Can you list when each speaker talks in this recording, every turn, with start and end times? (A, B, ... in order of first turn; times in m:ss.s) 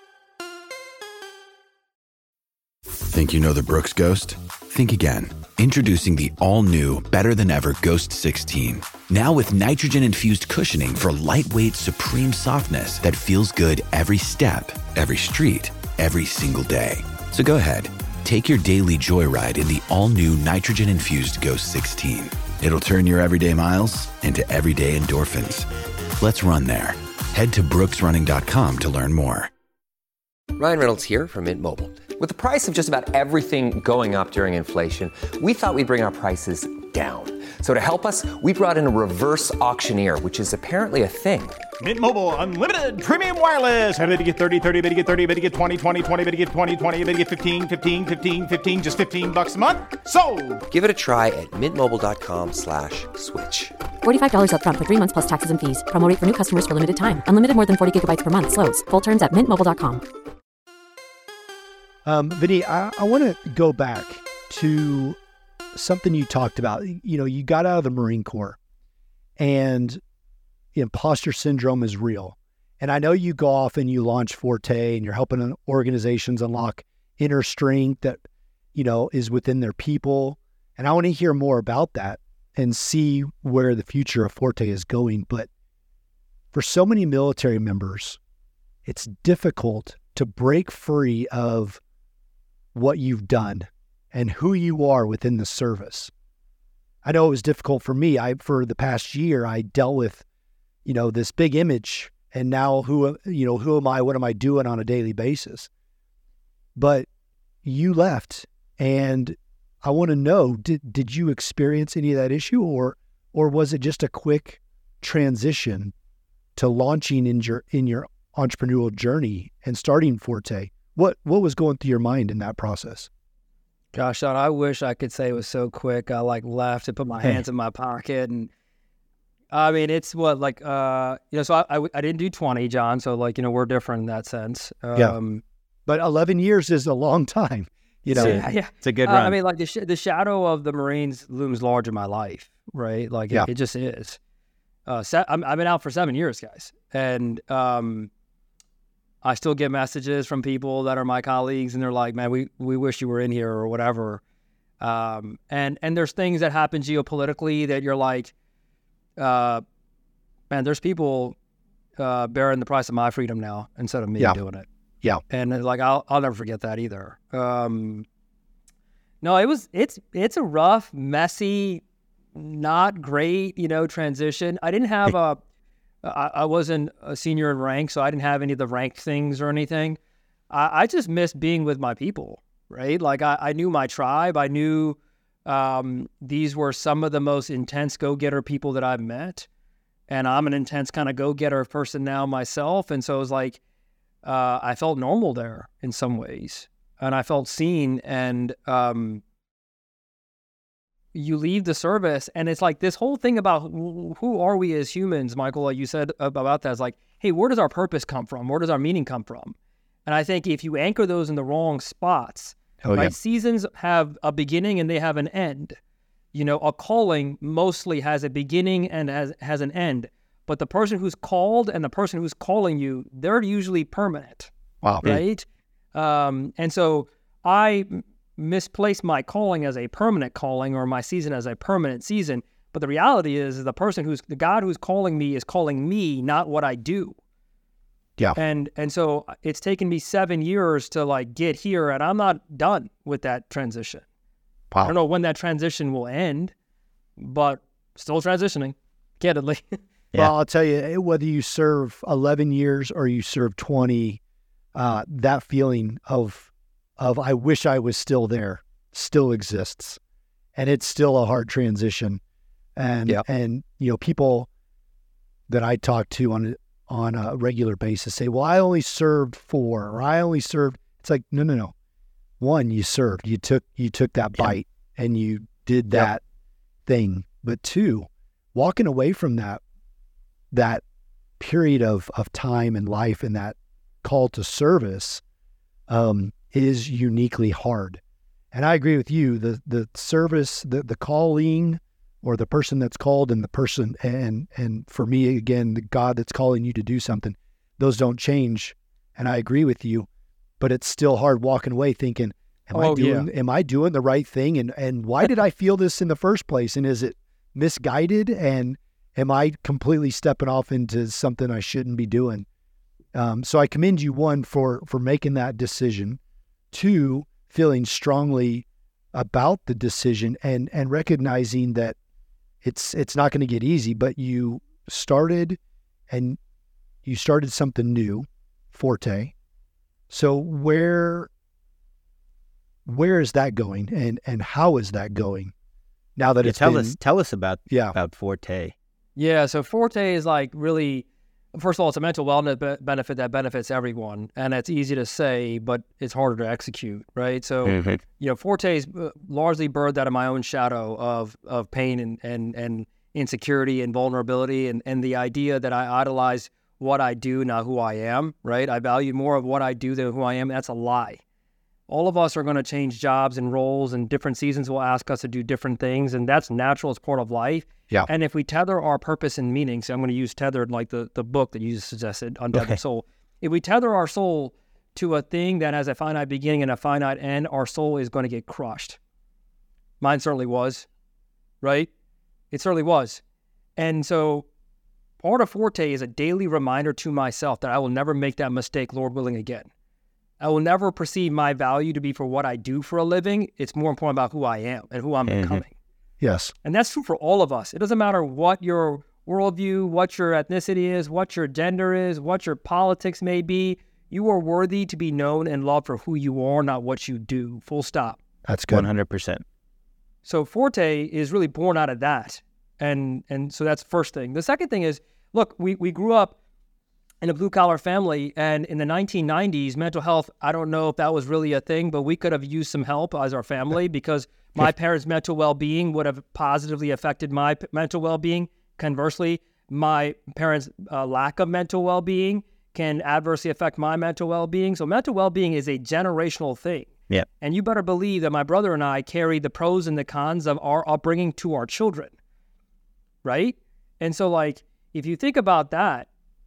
0:03.1-0:25.7 A
0:26.2-0:29.5 A
0:30.6-0:41.6 B
0:41.8-0:50.6 C
0:50.7-0:53.8 B
0:54.0-1:00.1 D
1:02.0-1:05.2 E
1:05.7-1:08.6 E
1:09.4-1:10.0 E
1:10.8-1:18.2 E
1:18.7-1:25.5 E
1:26.5-1:28.2 E
1:28.8-1:31.8 E
1:32.7-1:36.1 E
1:37.0-1:40.2 E
1:40.8-1:45.7 E
1:46.8-1:47.1 E
1:47.6-1:55.9 E
1:56.6-2:03.1 E
2:03.9-2:08.5 F
2:09.5-2:15.4 F
2:15.9-2:18.4 E
2:18.1-2:24.2 F
2:18.2-2:19.4 G
2:24.9-2:28.1 F
2:29.2-2:34.2 F
2:34.8-2:38.3 F
2:39.2-2:39.6 F
2:40.5-2:41.4 F
2:42.0-2:44.7 F
2:45.3-2:48.0 F
2:49.2-2:51.8 F
2:52.4-2:55.4 F
2:56.0-3:00.0 F
3:00.5-3:09.5 F
3:10.1-3:13.6 F
3:14.2-3:19.2 F
3:21.1-3:29.6 F
3:30.1-3:35.8 F
3:32.8-3:33.1 E
3:36.3-3:44.5 F
3:44.8-3:45.2 E
3:45.0-3:57.2 F
3:58.4-4:04.0 F
4:04.8-4:06.5 F
4:07.2-4:09.8 F
4:10.2-4:14.2 E
4:14.8-4:20.0 E
4:20.6-4:22.2 E
4:22.8-4:24.5 E
4:25.5-4:31.7 E
4:32.4-4:36.2 E
4:36.9-4:39.6 E
4:40.5-4:40.8 E
4:41.4-4:45.2 E
4:45.9-4:48.0 E
4:48.5-5:00.1 E
5:00.6-5:12.5 E
5:02.7-5:03.3 F
5:13.1-5:16.2 E
5:16.7-5:22.0 E
5:22.6-5:25.6 E
5:26.1-5:26.4 E
5:27.0-5:29.3 E
5:30.1-5:31.3 E
5:32.9-5:35.5 E
5:36.2-5:37.0 E
5:36.4-5:38.7 G
5:37.7-5:38.0 E
5:39.2-6:01.2 F
5:47.7-5:48.0 G
6:01.9-6:19.0 F
6:20.0-6:20.9 F
6:21.6-6:21.9 F
6:22.5-6:23.2 F
6:23.8-6:24.5 F
6:25.2-6:29.7 F
6:30.4-6:35.7 F
6:35.3-6:35.6 G
6:36.2-6:36.5 E
6:36.6-6:48.2 F
6:48.5-6:48.9 E
6:48.7-6:49.4 G
6:50.2-6:56.4 F
6:57.2-7:22.1 F
7:23.2-7:26.1 F